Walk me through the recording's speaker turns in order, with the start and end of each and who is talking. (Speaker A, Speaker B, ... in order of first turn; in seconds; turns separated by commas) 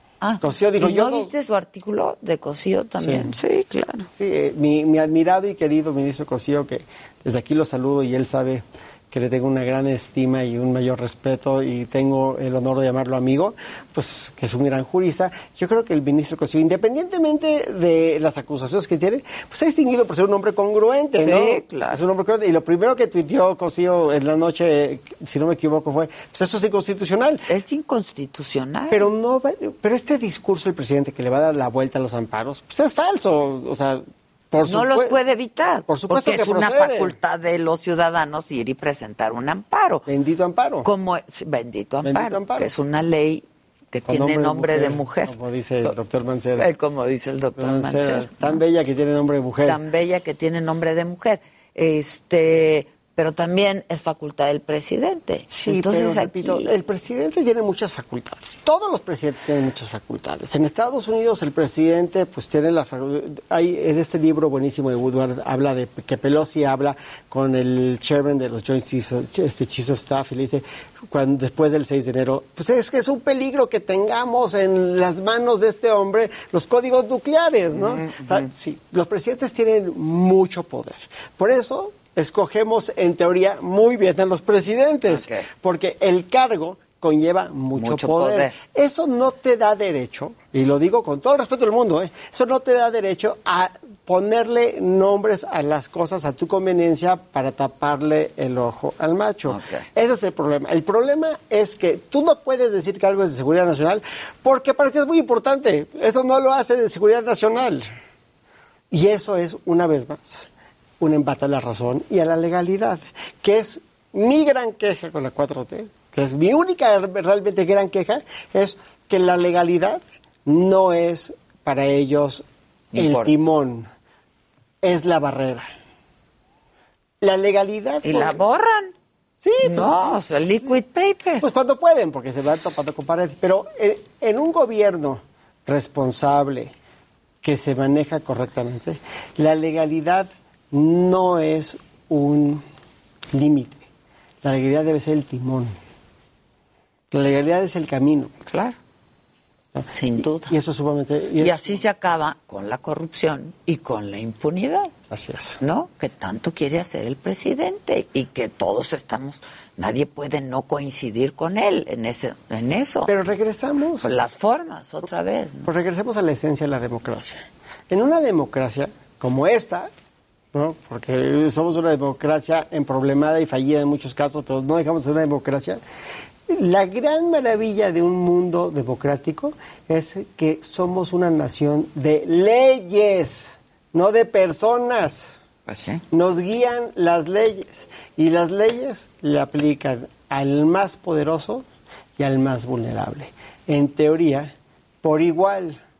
Speaker A: 0.2-4.1, Speaker B: 0.4-1.3, Speaker B: 3.0-3.4, Speaker B: 4.2-27.4, Speaker A: 21.2-22.0, Speaker A: 27.5-29.1, Speaker B: 28.9-35.2, Speaker A: 34.6-40.1, Speaker B: 35.9-37.1, Speaker B: 40.1-40.9, Speaker A: 40.8-46.0, Speaker B: 42.0-42.7, Speaker B: 44.1-46.7, Speaker A: 46.6-48.6, Speaker B: 47.6-49.8, Speaker A: 49.6-56.7, Speaker B: 55.5-107.9, Speaker A: 77.7-78.5, Speaker A: 85.1-85.5, Speaker A: 87.8-88.6, Speaker A: 99.5-99.9, Speaker B: 108.9-110.5, Speaker B: 111.0-123.9, Speaker A: 122.9-123.3, Speaker B: 124.8-125.7, Speaker B: 127.2-128.4, Speaker A: 128.0-128.9, Speaker B: 129.4-130.2, Speaker A: 129.6-131.4, Speaker B: 131.4-136.7, Speaker B: 137.4-142.6, Speaker B: 143.3-143.9, Speaker B: 144.4-145.8, Speaker B: 147.1-148.3, Speaker A: 148.5-148.8, Speaker B: 149.8-151.8, Speaker A: 149.9-150.6, Speaker A: 151.4-154.9, Speaker B: 155.1-155.6, Speaker A: 155.6-163.1, Speaker B: 163.1-164.1, Speaker A: 164.0-165.7, Speaker B: 165.7-169.9, Speaker B: 170.5-175.8, Speaker B: 176.5-185.3, Speaker A: 185.7-186.0, Speaker B: 186.1-191.7, Speaker B: 192.2-195.8